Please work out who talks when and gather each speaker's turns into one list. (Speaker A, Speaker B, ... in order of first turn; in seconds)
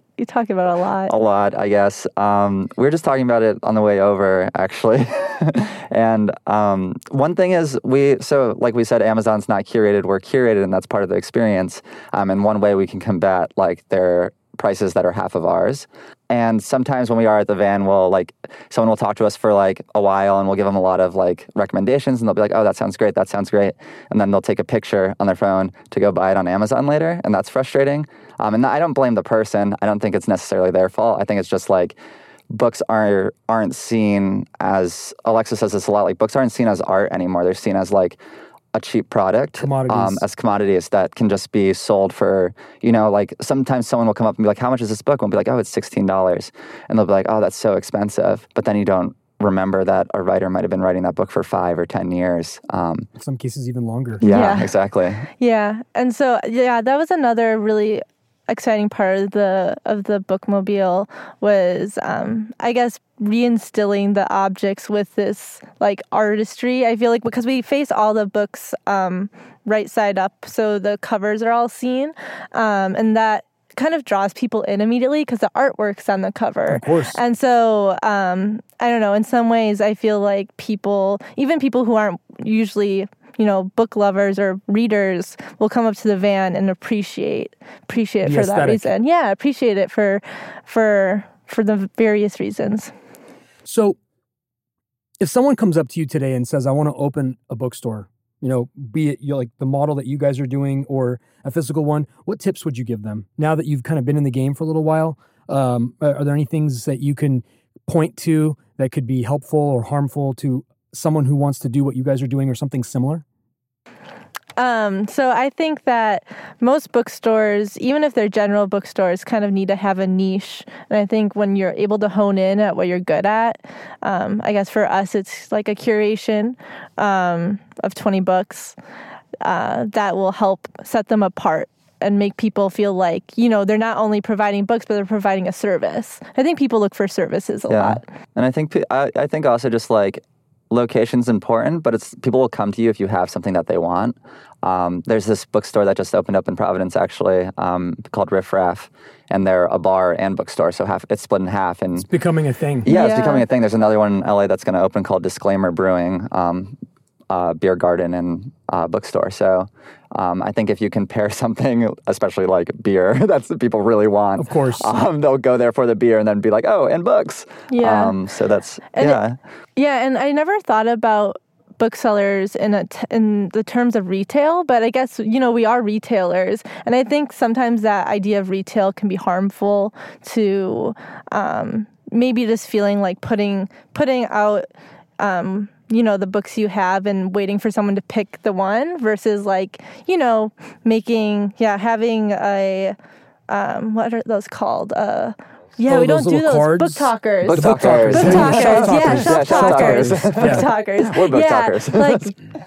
Speaker A: 0.2-1.1, 54.2-54.8, 55.3-92.9, 114.6-128.8, 129.4-138.0, 152.9-153.4, 167.7-168.2, 168.9-169.2, 169.8-184.7, 185.2-192.9, 193.5-202.3
Speaker B: 1.1-31.9, 32.5-38.2, 38.7-53.1, 54.2-55.3, 137.7-152.1, 152.8-156.8, 157.3-169.3, 197.4-202.3
Speaker C: 39.6-40.2, 53.2-54.2, 76.7-77.2, 88.2-88.9, 93.6-94.0, 95.2-113.2, 151.9-152.9, 164.4-164.9, 195.9-200.7